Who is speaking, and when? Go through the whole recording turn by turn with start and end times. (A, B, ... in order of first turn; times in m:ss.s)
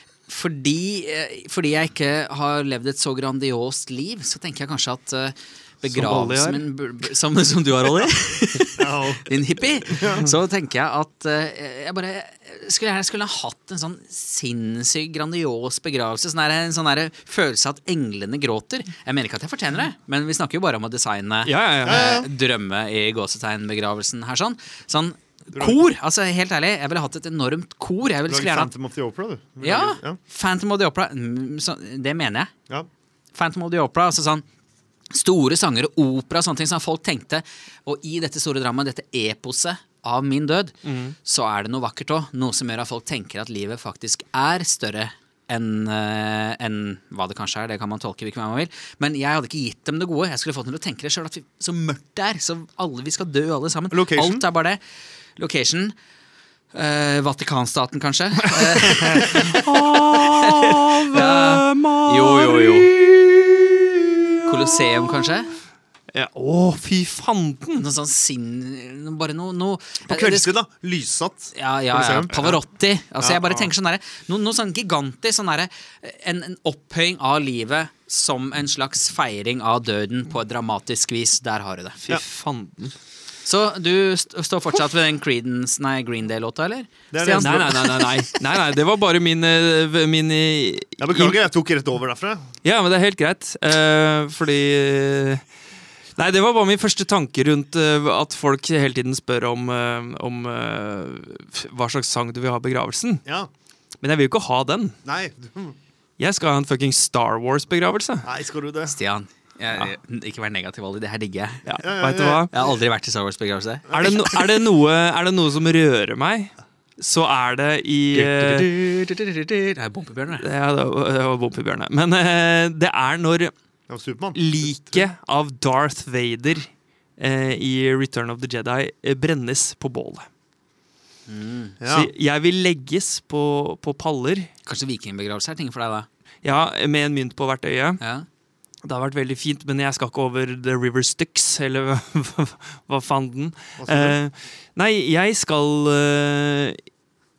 0:00.3-0:28.7 A
0:05.9-0:06.6 B
0:08.8-0:09.3 C
0:09.8-0:10.3 C
0:21.4-0:22.1 B
0:21.8-0:22.3 C
0:25.5-0:25.9 C
0:28.3-0:30.2 C
0:29.6-0:32.5 A
0:33.3-0:34.4 A
0:35.1-0:54.8 A
0:40.8-0:41.2 B
0:53.9-0:54.4 C
0:55.4-0:55.9 A
0:56.7-1:02.9 A
0:58.7-1:05.4 B
1:04.5-1:05.5 A
1:06.1-1:07.8 B
1:07.8-1:10.5 A
1:10.1-1:12.6 C
1:11.5-1:22.0 A
1:13.2-1:13.7 C
1:22.0-1:22.9 B
1:23.4-1:28.0 A
1:27.1-1:28.0 C
1:27.4-1:31.4 B
1:31.0-1:32.4 C
1:32.6-1:35.4 B
1:36.2-1:43.2 B
1:44.0-1:45.0 B
1:45.0-1:45.8 C
1:46.2-1:48.2 B
1:48.2-1:48.9 C
1:48.8-1:51.7 A
1:51.6-1:52.5 B
1:51.8-1:52.6 C
1:52.5-1:54.1 A
1:53.9-1:54.2 C
1:53.9-1:58.7 B
1:58.1-2:00.4 A
2:00.3-2:03.5 B
2:03.9-2:05.1 C
2:04.3-2:10.2 B
2:11.3-2:11.8 A
2:11.8-2:12.1 C
2:11.9-2:14.5 B
2:14.7-2:16.1 A
2:16.4-2:18.0 B
2:18.0-2:18.2 A
2:18.8-2:26.8 B
2:23.8-2:24.2 C